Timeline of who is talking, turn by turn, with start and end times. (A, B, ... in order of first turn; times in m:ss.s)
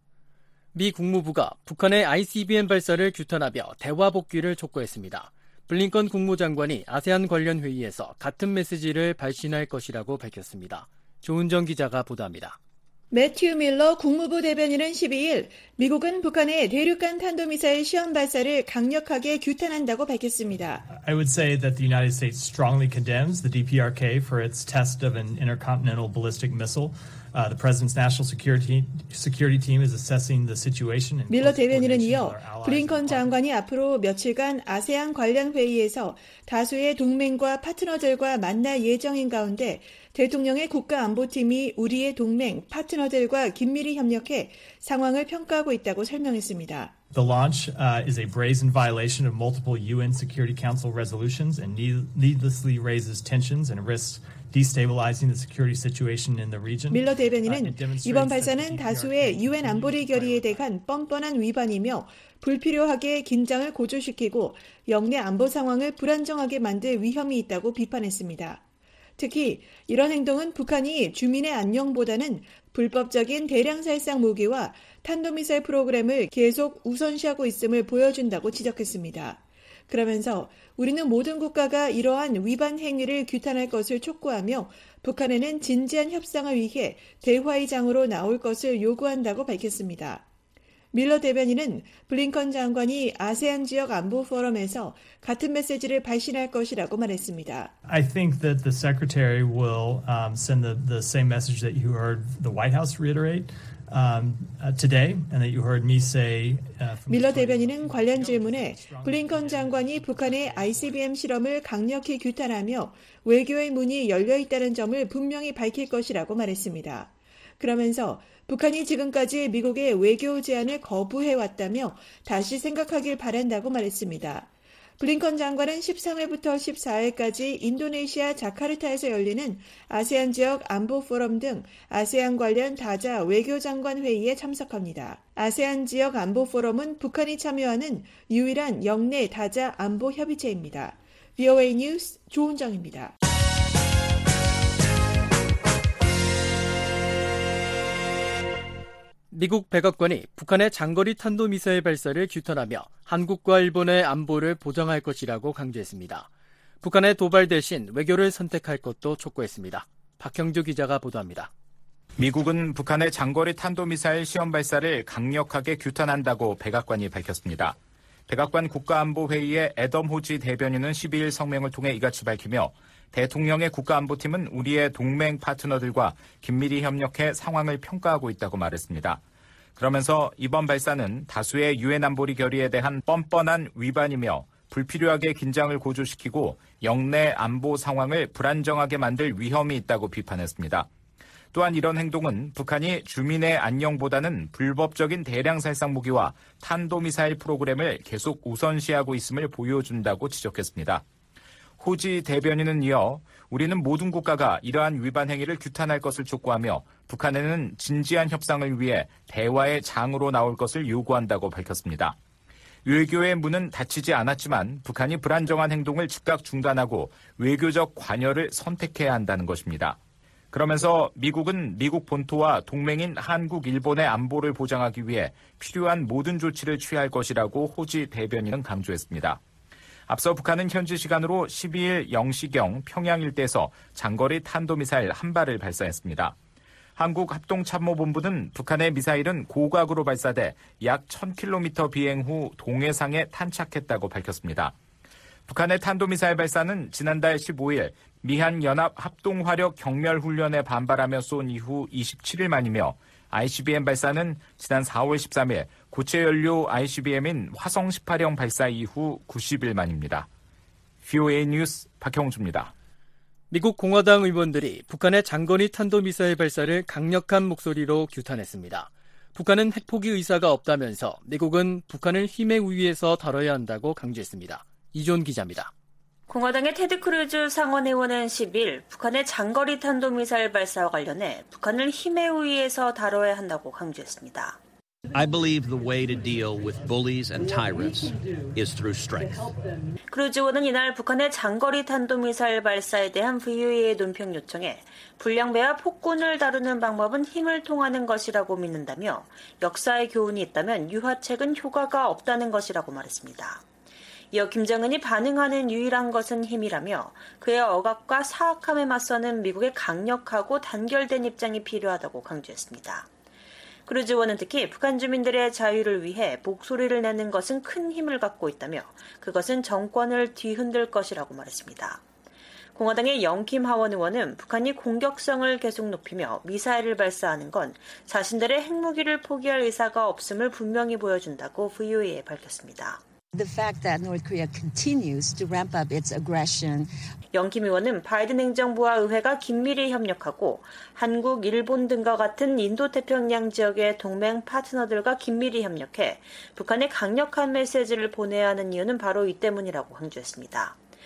0:00.8-0:12.6 A
0:13.1-0:20.9 B
0:20.9-0:33.4 C
0:31.3-0:47.0 B
0:47.1-1:00.7 C
0:56.9-1:08.6 B
1:09.2-1:30.2 B
1:30.9-1:37.8 B
1:37.9-1:51.0 C
1:47.1-2:23.1 B
2:29.3-2:36.3 A
2:36.8-2:41.5 A
2:42.2-2:47.8 D
2:48.3-2:59.2 D
2:59.8-3:10.9 D
3:11.5-3:21.0 D
3:21.8-3:32.2 D
3:32.8-3:40.0 D
3:40.5-3:49.4 D
3:50.1-3:56.4 D
3:57.0-4:04.7 D
4:05.5-4:20.3 D
4:21.0-4:22.7 D
4:23.5-4:35.7 A
4:36.3-4:44.6 E
4:45.1-4:49.6 F
4:50.1-5:03.6 E
5:04.3-5:13.1 E
5:13.9-5:22.0 E
5:22.8-5:33.0 E
5:33.3-5:36.9 G
5:37.3-5:50.8 E